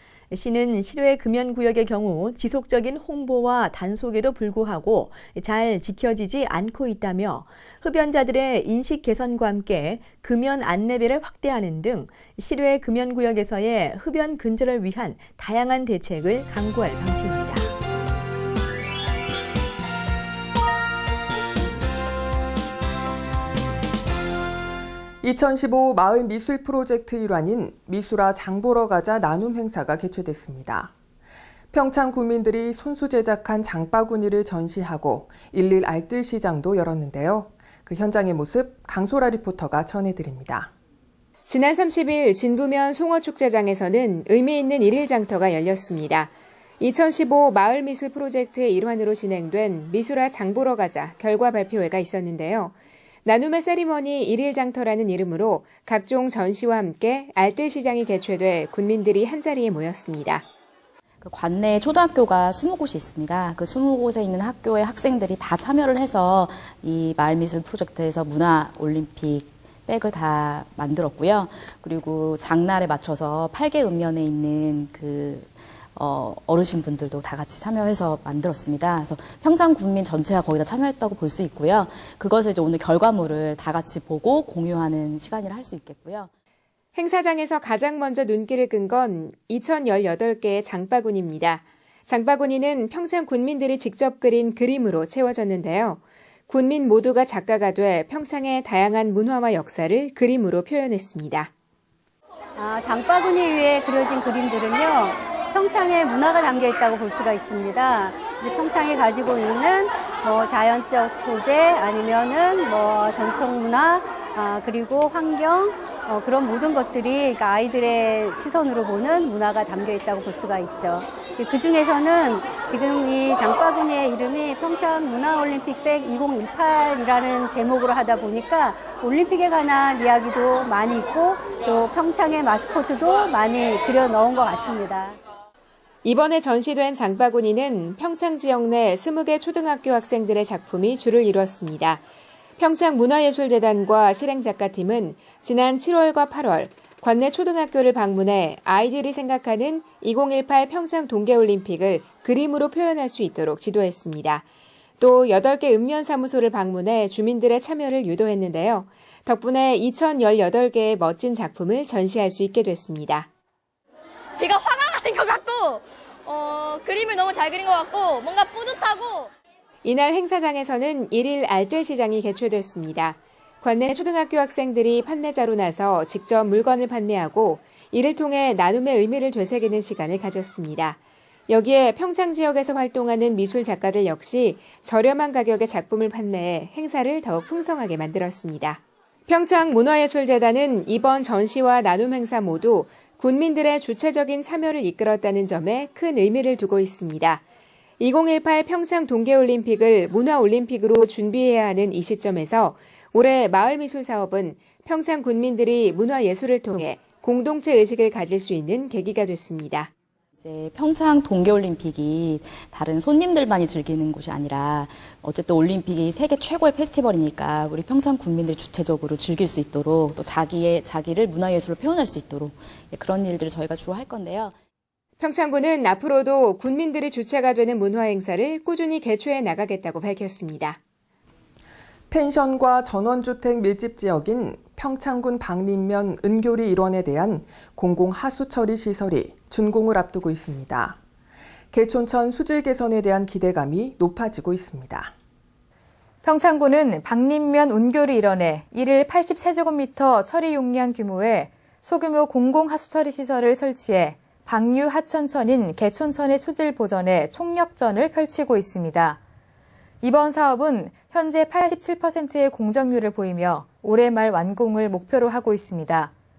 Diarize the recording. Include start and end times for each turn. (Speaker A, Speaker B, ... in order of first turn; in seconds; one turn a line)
Speaker A: 0.3-17.7
Speaker B: 25.2-30.9
Speaker B: 31.7-40.7
Speaker C: 41.5-52.7
Speaker C: 53.2-60.4
Speaker D: 61.2-86.3
Speaker C: 86.9-101.5
Speaker E: 102.5-135.2
Speaker C: 136.0-142.0
Speaker C: 142.6-154.4
Speaker C: 155.0-163.3
Speaker F: 164.3-169.3
Speaker C: 169.8-197.4
Speaker C: 198.0-209.9
Speaker D: 210.4-224.5
Speaker C: 225.2-230.8
Speaker B: 232.1-241.0
Speaker B: 241.7-245.1
Speaker G: 246.2-259.2
Speaker G: 260.0-266.1